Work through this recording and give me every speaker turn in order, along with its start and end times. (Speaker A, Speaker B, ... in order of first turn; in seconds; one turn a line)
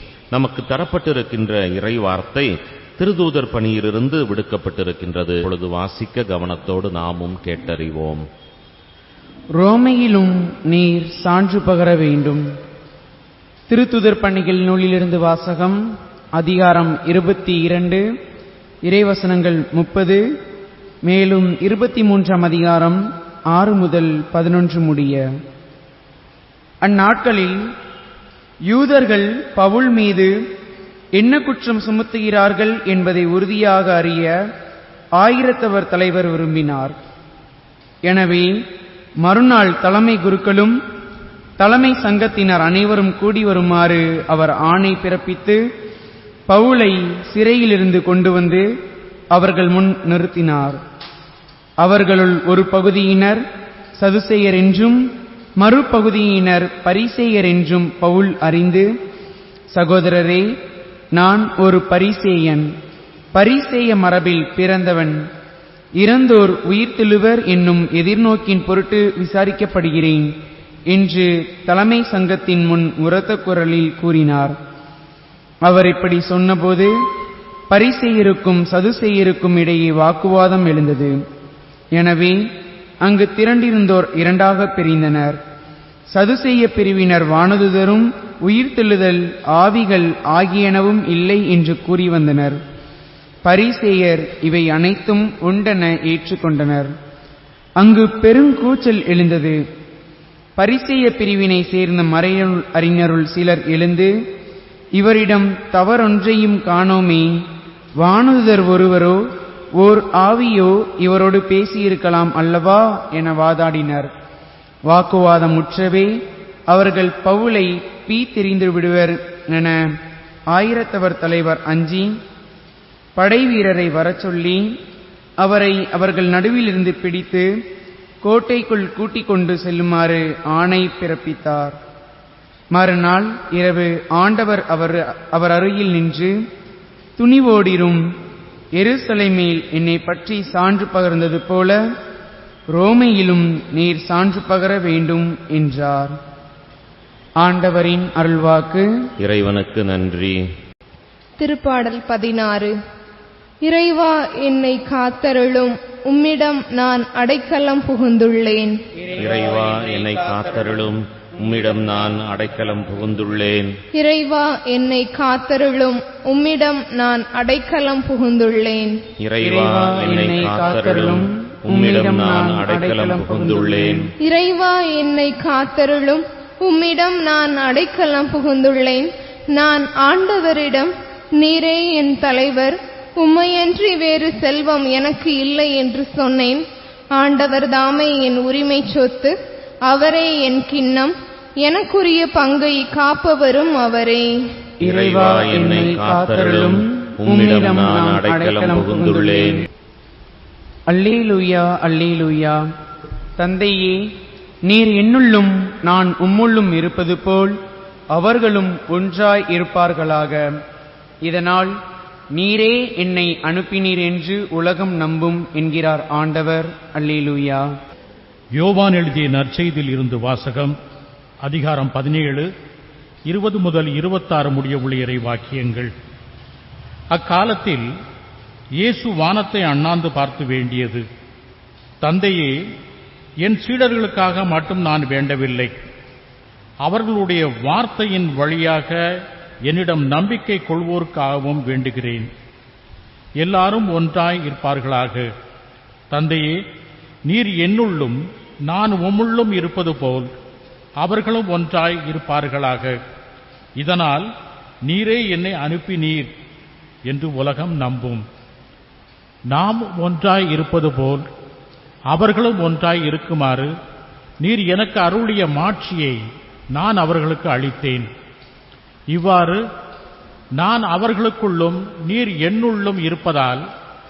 Speaker A: 0.3-8.2
Speaker B: 9.6-12.4
Speaker B: 13.7-15.8
Speaker B: 16.4-18.0
Speaker B: 18.9-20.2
Speaker B: 21.1-23.0
Speaker B: 23.5-25.2
Speaker B: 26.8-27.6
Speaker B: 28.7-30.3
Speaker B: 31.2-34.3
Speaker B: 35.2-37.0
Speaker B: 38.1-38.5
Speaker B: 39.2-40.8
Speaker B: 41.6-45.6
Speaker B: 46.5-48.6
Speaker B: 49.3-50.8
Speaker B: 51.8-53.4
Speaker B: 54.0-55.0
Speaker B: 55.6-58.9
Speaker B: 59.7-60.5
Speaker B: 61.2-62.7
Speaker B: 63.4-65.2
Speaker B: 66.0-70.3
Speaker B: 70.9-74.5
Speaker B: 75.6-76.9
Speaker B: 77.7-81.2
Speaker B: 81.9-82.4
Speaker B: 83.0-85.4
Speaker B: 86.1-92.6
Speaker B: 93.4-96.9
Speaker B: 97.8-99.6
Speaker B: 100.6-104.1
Speaker B: 105.0-107.4
Speaker B: 108.0-109.2
Speaker B: 109.8-114.1
Speaker B: 114.9-116.1
Speaker B: 116.7-119.9
Speaker B: 120.5-122.1
Speaker B: 123.2-124.6
Speaker B: 125.4-127.5
Speaker B: 128.2-131.8
Speaker B: 132.7-136.3
Speaker B: 137.2-138.0
Speaker B: 138.8-141.8
Speaker B: 142.7-146.1
Speaker B: 147.4-148.9
Speaker A: 149.2-150.4
Speaker C: 151.4-152.7
Speaker C: 153.6-158.8
Speaker A: 159.1-163.7
Speaker C: 163.9-168.9
Speaker A: 169.2-174.1
Speaker B: 169.4-174.1
Speaker C: 174.2-186.6
Speaker C: 187.2-189.3
Speaker C: 189.9-194.3
Speaker B: 194.8-199.6
Speaker A: 194.8-199.7
Speaker B: 200.9-202.6
Speaker B: 203.4-204.0
Speaker B: 204.7-207.6
Speaker B: 208.1-210.5
Speaker B: 211.2-211.7
Speaker B: 212.3-217.7
Speaker D: 218.6-220.7
Speaker D: 221.5-222.4
Speaker D: 223.3-225.9
Speaker D: 227.2-227.8
Speaker D: 228.8-231.0
Speaker D: 232.0-232.5
Speaker D: 233.4-235.7
Speaker D: 236.8-238.9
Speaker D: 239.7-242.3
Speaker D: 243.4-245.2
Speaker D: 246.1-246.5
Speaker D: 247.3-248.2
Speaker D: 248.7-250.3
Speaker D: 251.0-252.9
Speaker D: 253.8-254.2
Speaker D: 254.9-256.3
Speaker D: 257.1-258.2
Speaker D: 259.5-261.2
Speaker D: 262.1-263.7
Speaker D: 264.4-266.2
Speaker D: 266.8-268.1
Speaker D: 269.1-269.6
Speaker D: 270.6-273.6